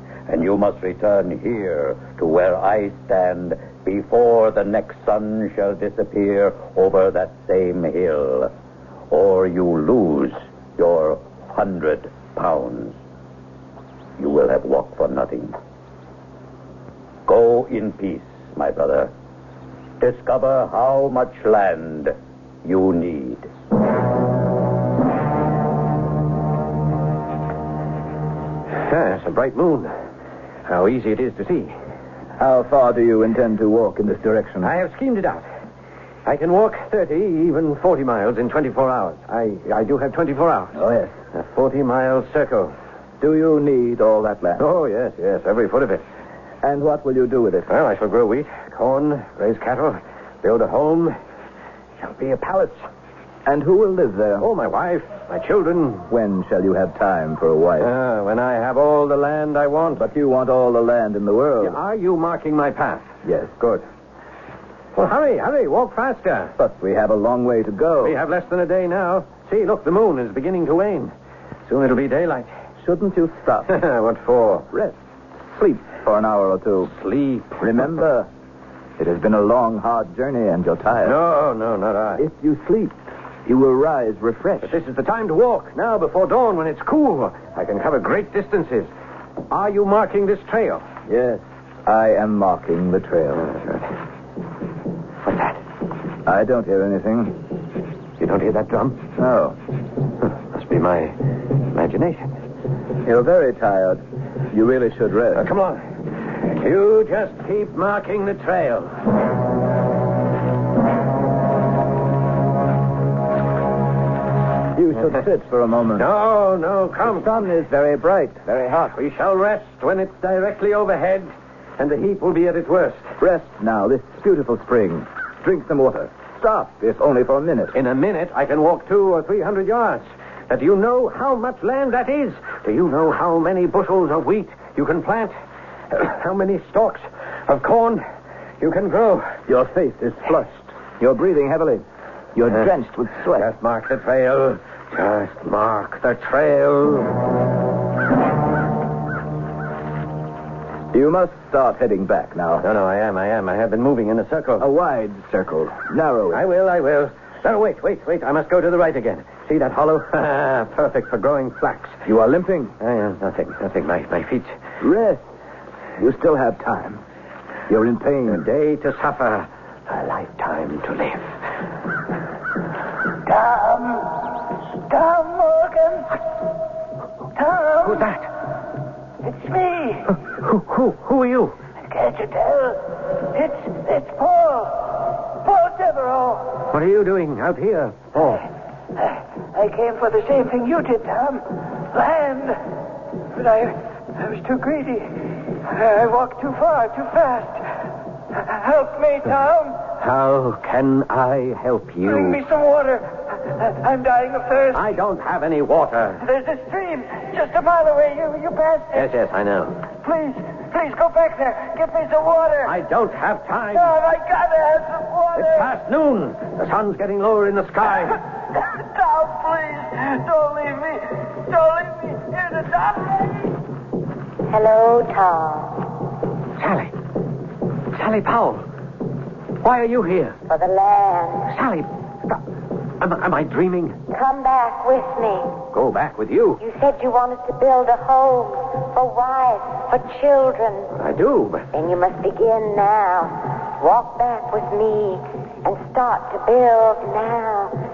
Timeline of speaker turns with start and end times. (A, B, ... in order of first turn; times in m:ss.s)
0:00.3-0:08.5 A
0:09.1-0:13.0 A
0:14.2-0:15.6 A
0:17.3-0:19.1 A
0:20.0-0:23.5 A
0:28.7-0:29.9 B
0:30.6-0:31.7 B
0:32.4-0:34.7 C
0:34.6-0:35.4 B
0:36.2-0:40.8 B
0:40.8-0:41.1 C
0:41.3-0:42.7 B
0:43.2-0:44.6 C
0:44.6-0:46.0 B
0:46.6-0:47.7 C
0:47.7-0:51.2 B
0:52.0-0:52.8 B
0:53.4-0:54.5 C
0:54.4-0:56.1 B
0:56.1-0:57.9 C
0:57.8-1:00.0 B
1:00.0-1:01.8 C
1:01.6-1:03.1 B
1:03.2-1:03.8 C
1:04.9-1:06.6 B
1:06.6-1:08.2 C
1:08.0-1:11.1 B
1:11.7-1:12.5 B
1:12.8-1:13.8 C
1:13.7-1:14.7 B
1:14.7-1:15.0 C
1:15.5-1:16.9 C
1:16.9-1:17.6 B
1:17.6-1:18.3 C
1:19.0-1:21.2 C
1:21.0-1:22.2 B
1:22.2-1:24.8 C
1:24.6-1:28.9 B
1:29.5-1:30.8 B
1:31.1-1:33.5 C
1:33.4-1:33.9 B
1:35.2-1:35.6 B
1:36.3-1:37.4 C
1:38.2-1:39.0 B
1:39.2-1:39.6 C
1:40.2-1:42.3 B
1:43.0-1:45.4 C
1:45.4-1:45.8 B
1:46.4-1:48.9 B
1:54.8-1:56.1 C
1:56.0-1:57.3 B
1:57.0-1:58.8 C
1:58.6-2:03.1 B
2:03.2-2:07.8 C
2:07.7-2:15.3 B
2:15.9-2:18.0 B
2:18.6-2:19.4 B
2:19.5-2:21.8 C
2:22.4-2:23.5 C
2:23.4-2:27.2 B
2:30.9-2:32.6 C
2:32.6-2:34.7 B
2:34.6-2:36.4 C
2:36.3-2:42.0 B
2:42.0-2:42.7 C
2:42.8-2:44.5 B
2:44.8-2:45.2 C
2:46.0-2:47.0 C
2:47.7-2:48.4 C
2:48.3-2:51.3 B
2:53.3-2:56.1 D
2:57.4-2:58.1 D
2:57.8-2:58.3 B
2:59.2-3:00.1 D
3:00.1-3:01.5 B
3:01.9-3:06.7 D
3:06.7-3:08.4 B
3:09.0-3:12.6 D
3:13.4-3:17.6 D
3:18.3-3:19.9 D
3:20.0-3:22.4 B
3:22.0-3:24.9 D
3:24.7-3:26.2 B
3:26.2-3:29.1 D
3:28.9-3:29.8 B
3:30.0-3:32.8 D
3:32.6-3:33.9 B
3:33.7-3:35.7 D
3:35.4-3:38.2 B
3:38.6-3:43.5 D
3:44.5-3:45.9 E
3:46.6-3:46.9 B
3:47.9-3:48.6 B
3:49.6-3:50.4 B
3:50.5-3:51.5 E
3:51.5-3:52.4 B
3:53.0-3:54.0 B
3:54.1-3:55.5 E
3:55.7-3:56.6 B
3:56.6-4:00.9 E
4:00.9-4:01.7 B
4:01.7-4:07.8 E